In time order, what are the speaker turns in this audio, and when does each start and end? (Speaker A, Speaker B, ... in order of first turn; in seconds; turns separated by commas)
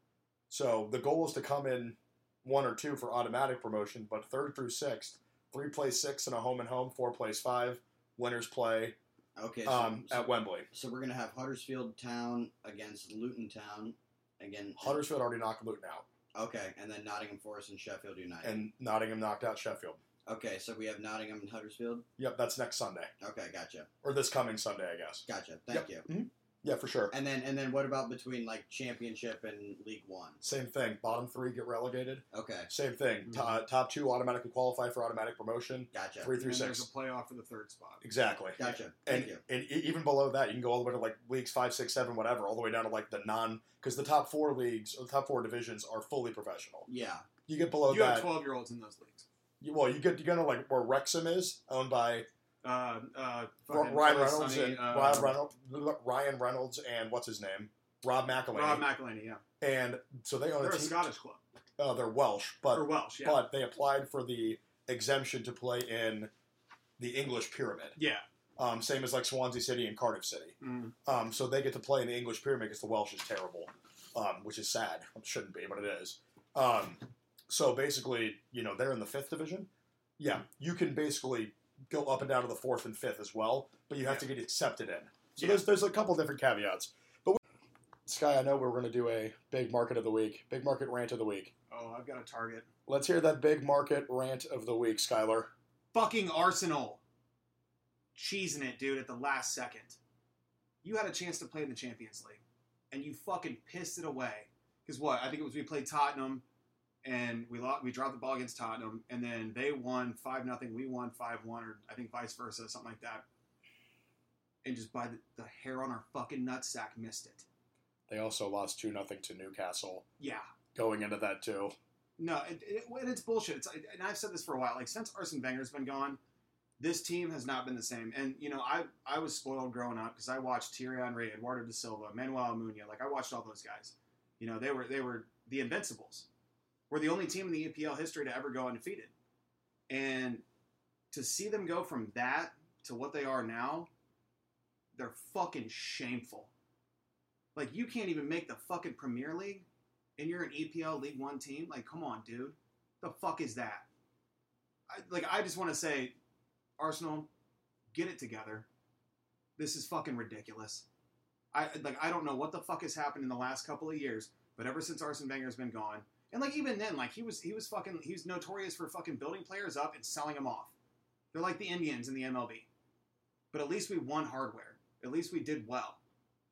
Speaker A: 0.5-9.0, Speaker B: 9.4-15.0, Speaker A: 9.7-10.7, Speaker A: 14.8-16.1, Speaker B: 16.4-18.6, Speaker A: 18.4-20.0, Speaker B: 20.3-22.1, Speaker A: 22.2-23.1, Speaker B: 23.2-23.9, Speaker A: 24.0-27.1, Speaker B: 25.3-26.1, Speaker B: 27.1-30.4, Speaker A: 30.4-36.9, Speaker B: 32.3-32.7, Speaker B: 35.9-36.3, Speaker C: 36.4-38.0, Speaker A: 38.0-46.9, Speaker B: 38.6-39.4, Speaker B: 46.9-47.3, Speaker A: 47.5-48.3, Speaker C: 47.9-49.3, Speaker A: 49.6-52.3, Speaker C: 52.6-55.4, Speaker A: 53.7-58.9, Speaker C: 58.5-59.4, Speaker A: 59.6-61.1, Speaker C: 60.6-61.4, Speaker A: 61.8-66.3, Speaker C: 62.7-63.4, Speaker A: 67.0-68.0, Speaker C: 68.0-68.2, Speaker A: 68.6-87.4, Speaker C: 70.6-71.0, Speaker C: 85.4-85.6, Speaker A: 88.1-91.5, Speaker C: 91.7-92.7, Speaker A: 92.9-95.5, Speaker C: 95.9-97.0, Speaker C: 98.2-100.0, Speaker C: 100.8-106.4, Speaker C: 107.0-113.2, Speaker C: 114.6-117.5, Speaker A: 118.1-120.0, Speaker C: 120.2-120.5, Speaker A: 120.8-121.8, Speaker C: 122.2-126.2, Speaker C: 126.8-136.3, Speaker C: 136.9-139.1, Speaker C: 139.9-140.4, Speaker C: 141.1-143.9, Speaker C: 144.9-146.5, Speaker C: 147.6-149.7, Speaker C: 150.2-153.9, Speaker C: 154.9-156.2, Speaker C: 156.8-157.3, Speaker C: 157.9-158.7, Speaker C: 159.6-160.8, Speaker C: 161.5-170.7, Speaker C: 171.3-172.7, Speaker C: 173.5-176.0